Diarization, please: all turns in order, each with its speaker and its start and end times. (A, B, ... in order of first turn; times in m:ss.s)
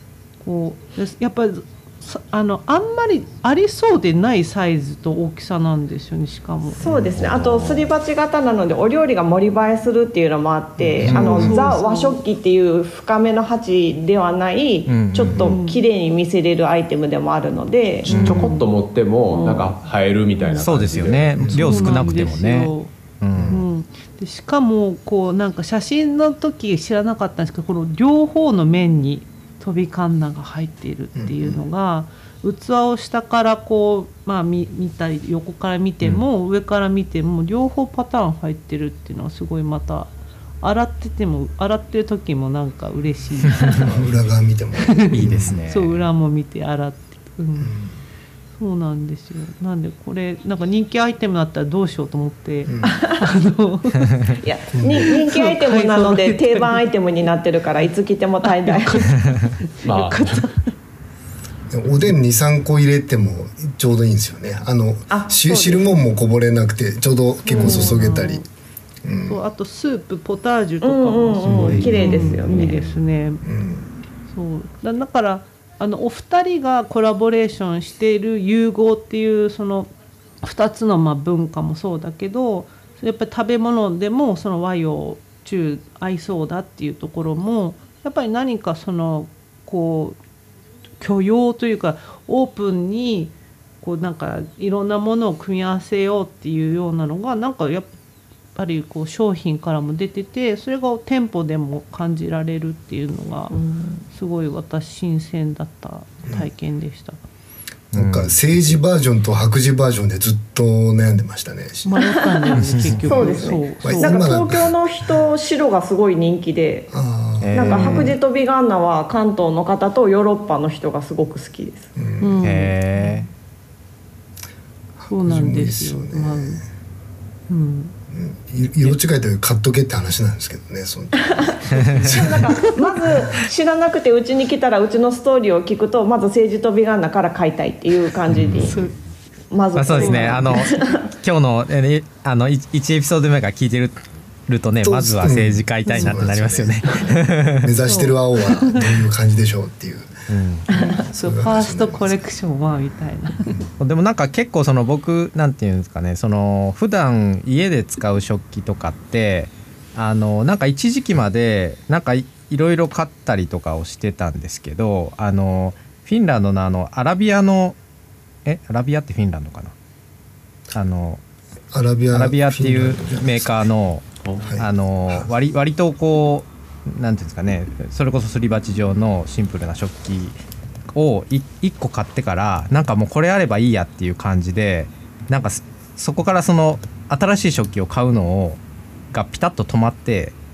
0:00.4-0:06.8 A
0:06.8-0:18.4 B
0:06.8-0:07.4 C
0:07.2-0:07.9 D
0:10.8-0:11.5 C
0:11.0-0:11.7 E
0:11.0-0:12.2 A
0:14.9-0:15.6 E
0:15.4-0:15.8 A
0:18.1-0:18.6 A
0:18.1-0:18.6 E
0:18.1-0:22.1 D
0:19.3-0:19.8 A
0:20.4-0:22.9 A
0:20.6-0:23.6 E
0:21.4-0:21.9 C
0:23.3-0:23.6 C
0:23.5-0:43.9 A
0:31.2-0:31.6 C
0:43.8-0:45.6 C
0:44.8-0:47.8 A
0:45.1-0:46.0 E
0:47.6-0:48.0 C
0:48.6-0:54.4 A
0:52.7-0:52.9 C
0:52.8-0:53.2 B
0:54.4-0:59.1 B
0:54.7-0:55.1 C
0:55.2-0:56.8 A
0:58.6-1:00.7 A
0:59.8-1:00.5 D
1:01.7-1:08.5 C
1:05.1-1:06.0 B
1:07.5-1:08.5 A
1:07.5-1:08.0 B
1:09.0-1:09.4 C
1:09.3-1:13.4 A
1:10.8-1:12.8 B
1:11.5-1:12.3 C
1:11.5-1:12.4 E
1:13.4-1:13.9 C
1:14.3-1:19.9 A
1:20.4-1:30.2 A
1:31.0-1:37.9 A
1:38.6-1:43.6 A
1:43.5-1:44.1 B
1:44.1-1:47.2 A
1:47.9-1:48.8 E
1:47.9-1:54.7 C
1:51.8-1:54.4 A
1:52.1-1:56.9 B
1:52.7-1:53.0 E
1:56.9-1:58.1 C
1:57.4-1:58.1 E
1:57.5-2:01.9 B
2:02.0-2:02.5 C
2:02.2-2:03.3 A
2:02.4-2:03.3 E
2:05.0-2:06.6 C
2:05.1-2:06.6 A
2:07.5-2:08.0 A
2:08.1-2:12.4 C
2:11.2-2:18.9 B
2:11.7-2:12.3 E
2:18.3-2:18.8 C
2:18.6-2:19.0 A
2:19.5-2:21.0 B
2:19.8-2:27.7 E
2:19.9-2:20.9 A
2:24.8-2:30.3 C
2:27.9-2:29.0 A
2:30.3-2:30.7 E
2:30.7-2:33.6 A
2:31.0-2:32.2 C
2:33.8-2:47.8 E
2:48.4-2:49.7 E
2:50.7-2:51.2 E
2:51.7-2:53.7 C
2:52.1-2:54.1 E
2:54.2-2:54.6 D
2:54.4-2:55.3 C
2:54.6-3:00.4 E
3:00.9-3:10.4 E